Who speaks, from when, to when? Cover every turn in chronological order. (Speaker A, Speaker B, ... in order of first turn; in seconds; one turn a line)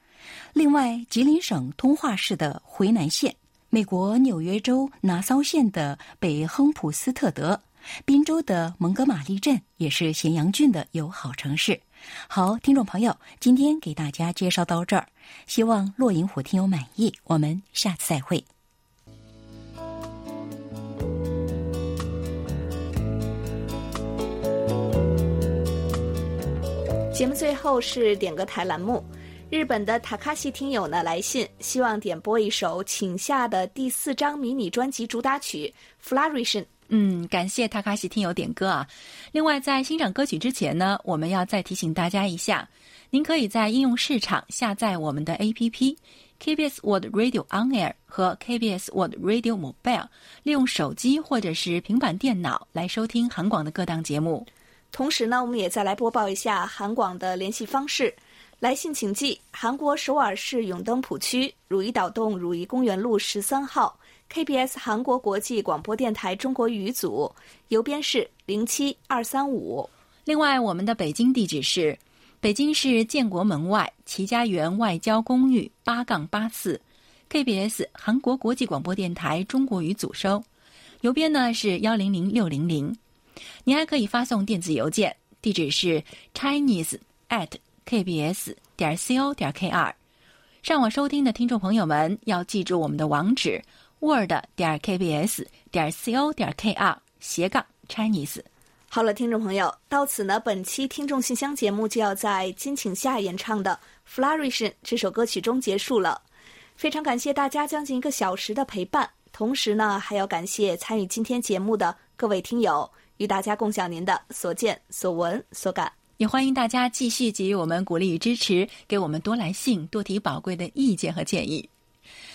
Speaker A: 0.5-18.4
Speaker B: 27.1-36.7
Speaker C: 36.9-54.5
Speaker B: 54.9-69.9
Speaker C: 70.3-80.5
Speaker C: 81.0-83.0
Speaker C: 83.7-90.0
Speaker C: 90.6-98.5
Speaker B: 98.9-106.2
Speaker B: 106.8-115.9
Speaker C: 116.2-121.7